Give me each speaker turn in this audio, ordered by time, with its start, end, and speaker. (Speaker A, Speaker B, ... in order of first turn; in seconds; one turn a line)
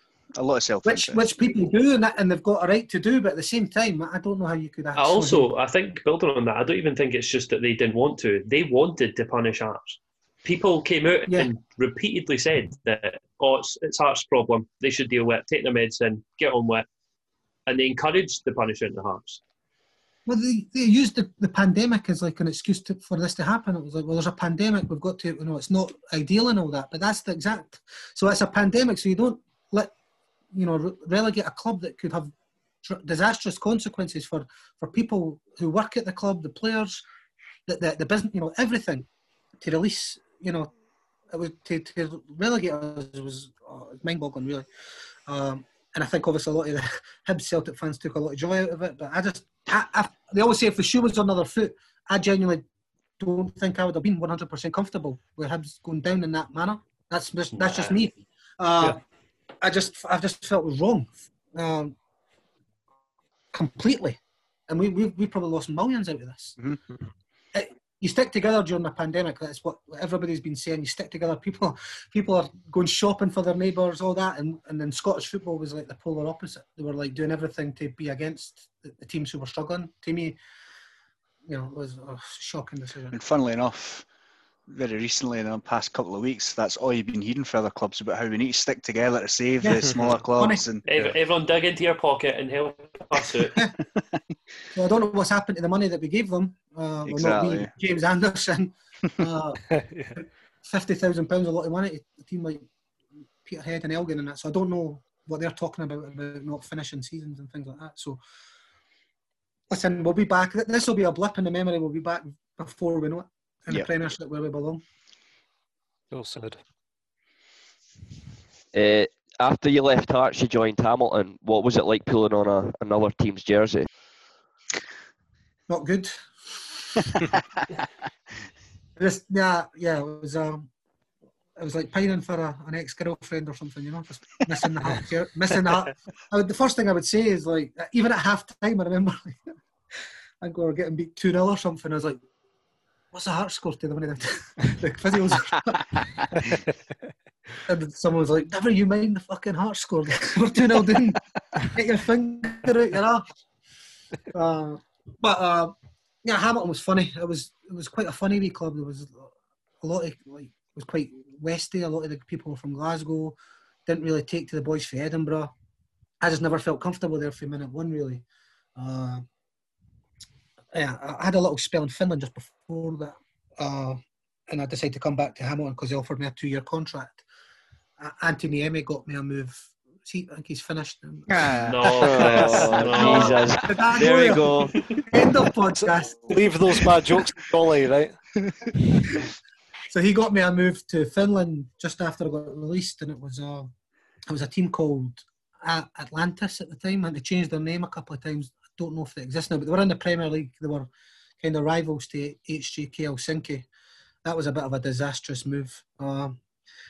Speaker A: 0.3-1.2
Speaker B: 0.8-5.5
Speaker C: 4.9-16.9
Speaker C: 17.7-19.4
Speaker B: 20.2-29.9
Speaker B: 30.5-32.3
Speaker B: 32.8-37.0
Speaker B: 37.7-39.1
Speaker B: 39.6-40.7
Speaker B: 41.3-44.6
Speaker B: 45.3-52.6
Speaker B: 53.2-59.0
Speaker C: 57.5-58.0
Speaker B: 59.6-61.9
Speaker B: 63.5-66.6
Speaker B: 67.5-80.4
Speaker B: 81.5-83.2
Speaker A: 83.1-84.1
Speaker A: 84.7-90.9
Speaker B: 89.6-90.6
Speaker C: 90.9-93.6
Speaker B: 94.7-99.6
Speaker A: 97.0-97.7
Speaker D: 99.7-100.2
Speaker B: 100.2-102.6
Speaker B: 103.4-108.2
Speaker B: 109.7-114.8
Speaker D: 116.1-116.6
Speaker E: 118.7-123.9
Speaker B: 125.7-127.1
Speaker B: 129.0-130.7
Speaker B: 131.6-139.4
Speaker B: 140.4-142.2
Speaker B: 143.1-146.0
Speaker B: 147.7-153.3
Speaker B: 154.3-165.5
Speaker B: 166.2-168.2
Speaker B: 168.8-169.2
Speaker B: 170.7-177.2
Speaker B: 178.0-186.4
Speaker A: 181.3-181.8
Speaker C: 181.6-183.6
Speaker E: 182.0-184.8
Speaker D: 185.8-188.2
Speaker A: 189.0-189.2
Speaker B: 189.9-193.7
Speaker B: 194.3-200.9
Speaker B: 201.4-203.7
Speaker B: 204.2-206.4